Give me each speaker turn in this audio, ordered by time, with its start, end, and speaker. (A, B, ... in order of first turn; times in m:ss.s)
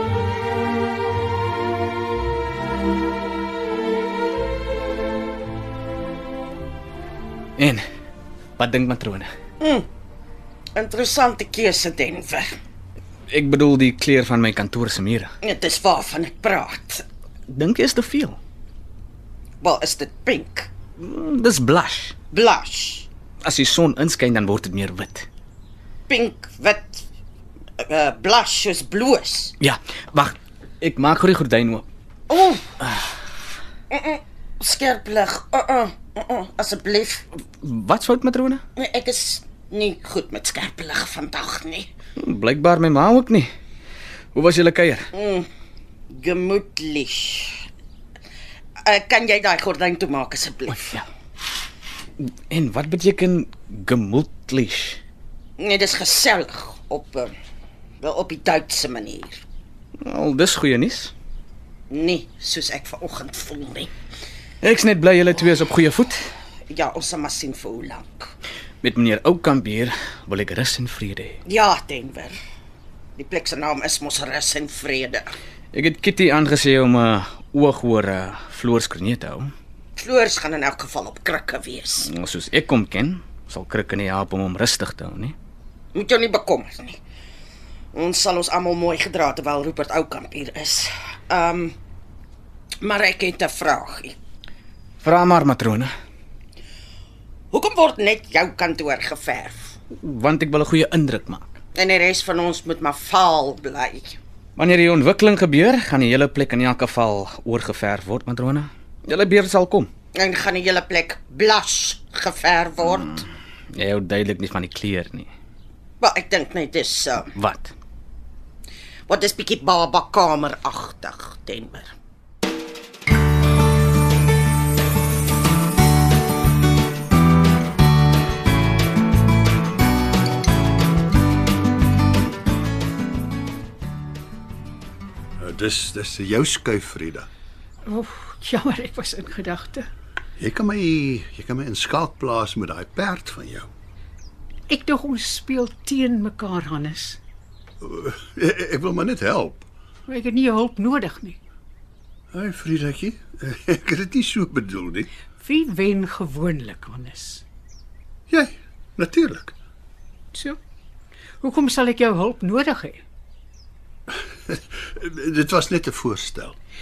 0:07.6-0:07.8 A
0:08.6-0:09.3 A
0:09.6-0:09.9 B
0:10.8-0:12.5 B
0:13.3-0:15.3 A
0:15.4-0:17.1 B
0:17.5-0:18.4 A
0:19.6-0:20.7 B
0:21.0-0:22.2 A
0:22.3-0:23.1 B
0:23.4-0:25.3 A
0:26.1-0:27.1 B
0:27.8-0:29.6 B
0:29.6-0:31.8 A
0:32.3-0:32.8 B
0:33.9-0:37.2 B
0:37.6-0:38.6 A
0:38.8-0:41.9 B
0:42.2-0:43.5 A
0:44.4-0:45.1 A
0:45.1-0:45.5 B
0:46.1-0:47.7 B
0:48.8-0:51.0 B
0:50.7-0:51.0 A
0:52.2-0:55.0 A
0:55.6-0:57.3 B
0:58.0-0:59.4 B
1:00.0-1:01.1 A
1:01.9-1:03.9 B
1:04.6-1:06.2 A
1:06.7-1:08.3 B
1:08.8-1:11.4 A
1:11.4-1:12.4 B
1:13.2-1:15.3 B
1:15.7-1:19.5 A
1:20.0-1:22.1 B
1:22.0-1:25.4 A
1:25.9-1:27.0 B
1:27.9-1:31.8 B
1:32.8-1:34.2 B
1:35.0-1:35.9 A
1:37.5-1:39.8 B
1:39.9-1:41.5 A
1:41.8-1:44.2 B
1:44.6-1:49.9 A
1:50.1-1:53.3 B
1:53.7-1:55.3 A
1:56.0-1:57.3 B
1:57.4-1:57.7 A
1:59.1-2:01.9 B
2:15.4-2:17.3 C
2:17.8-2:19.9 D
2:20.4-2:23.7 C
2:24.7-2:27.2 D
2:27.8-2:29.6 C
2:30.1-2:31.4 D
2:32.3-2:35.1 C
2:35.4-2:37.4 D
2:38.3-2:39.5 C
2:41.4-2:43.0 D
2:44.5-2:46.6 C